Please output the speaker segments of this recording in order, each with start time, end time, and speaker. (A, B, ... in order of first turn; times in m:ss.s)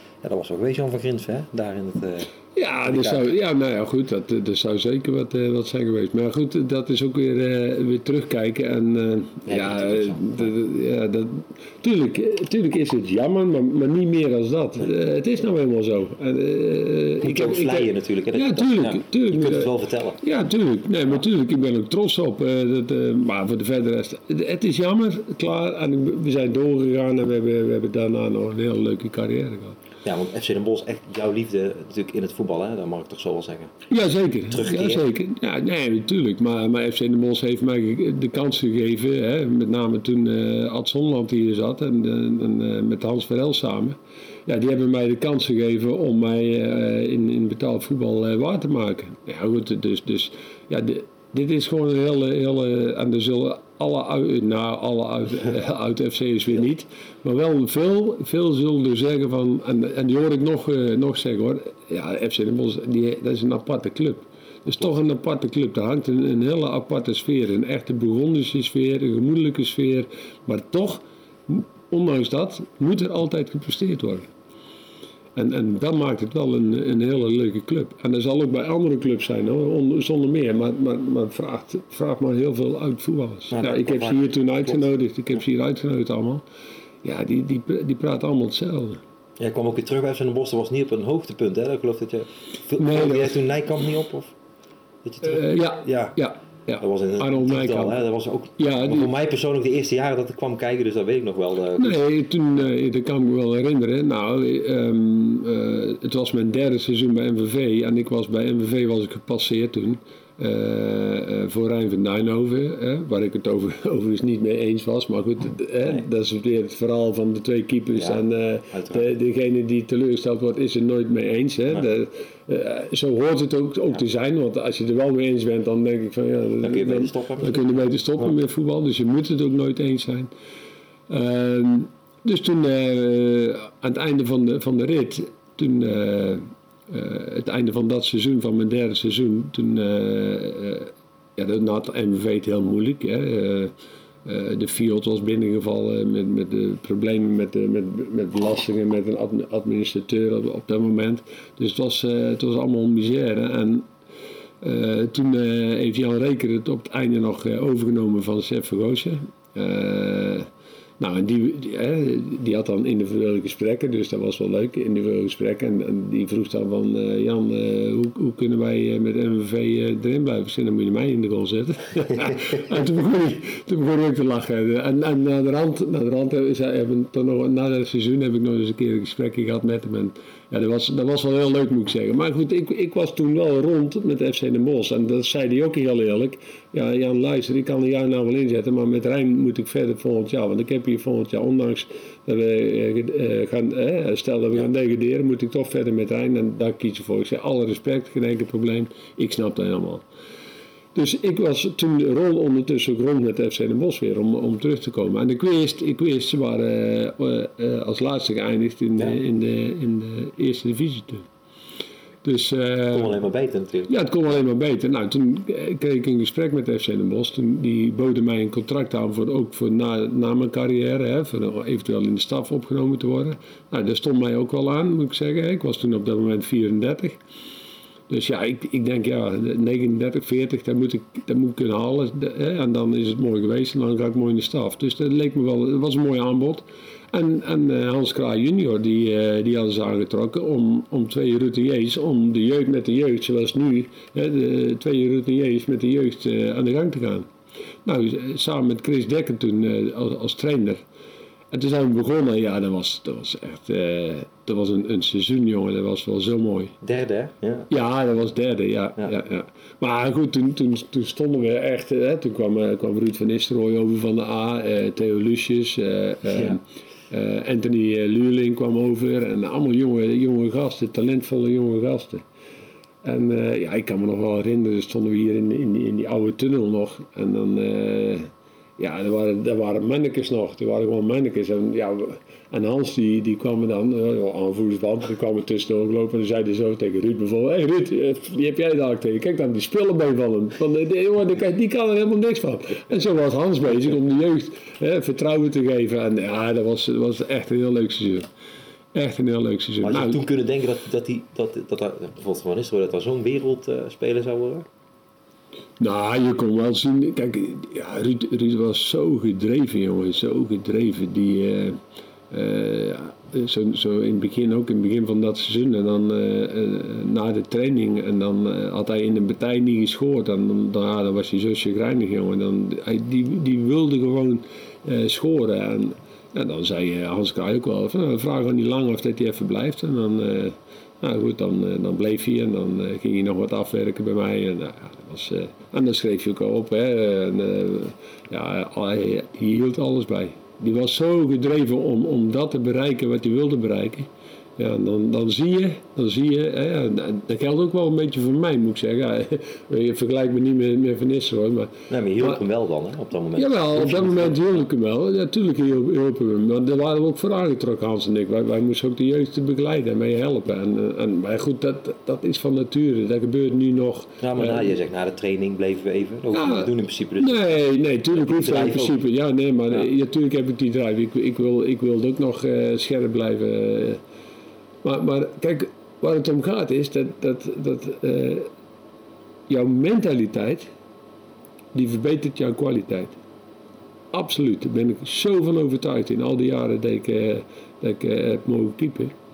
0:00.2-0:02.3 A
0:02.6-0:29.8 B
0:02.8-0:03.3 A
0:09.5-0:10.5 A
0:17.2-0:20.2 A
0:30.0-0:33.7 A
0:33.9-1:14.3 B
0:34.5-0:35.0 A
1:15.4-1:26.4 B
1:23.5-1:24.9 A
1:27.0-1:29.0 B
1:29.4-1:34.4 A
1:32.8-1:33.4 B
1:35.0-1:36.2 A
1:35.2-1:38.0 B
1:36.8-1:42.0 A
1:38.6-1:39.1 B
1:41.8-2:10.3 B
1:58.0-1:59.1 A
2:06.6-2:07.7 A
2:11.1-2:23.7 B
2:24.2-2:33.9 B
2:34.6-3:20.0 B
3:20.9-3:31.3 B
3:32.2-3:33.3 B
3:32.9-3:33.9 A
3:33.9-3:47.2 B
3:48.1-4:07.3 B
4:07.8-4:10.8 B
4:11.5-4:16.8 B
4:16.8-4:17.7 A
4:17.7-4:32.2 B
4:26.3-4:26.6 A
4:33.0-4:58.3 B
4:58.9-5:00.2 B
4:59.8-5:04.7 A
5:05.8-5:11.8 B
5:12.3-5:52.4 B
5:51.9-5:54.6 A
5:53.4-6:04.7 B
6:04.2-6:07.5 A
6:06.3-6:14.0 B
6:08.1-6:09.0 A
6:14.8-6:18.5 B
6:19.5-6:20.7 B
6:21.7-6:23.2 B
6:24.1-6:29.1 B